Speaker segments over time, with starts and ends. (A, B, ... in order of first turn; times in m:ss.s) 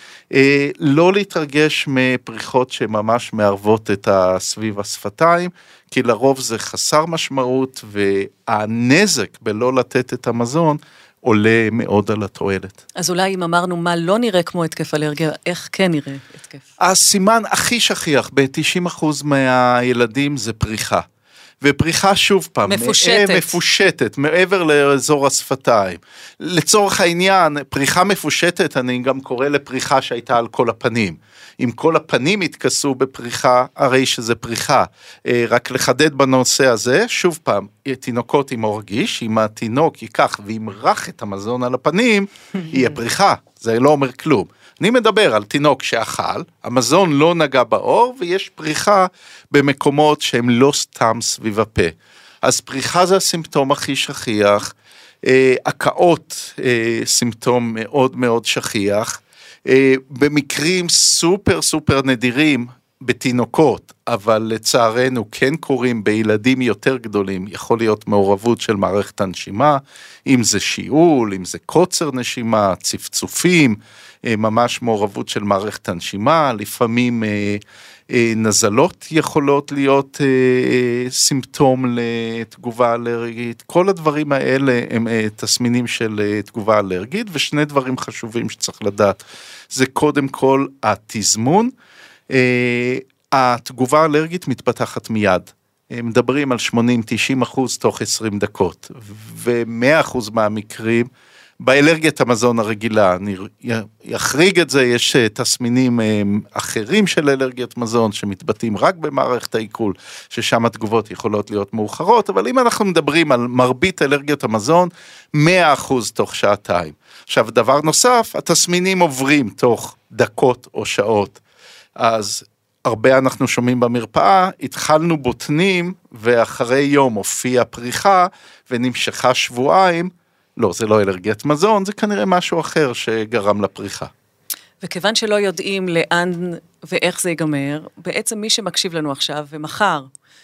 0:00.3-0:12.8 A
0:13.0-0:16.6 B
0:16.8-0:21.1 A
0:21.6-1:31.7 A
0:22.7-0:23.6 B
1:32.3-1:41.1 A
1:41.6-2:01.4 A
2:02.0-2:14.1 A
2:14.8-2:20.1 B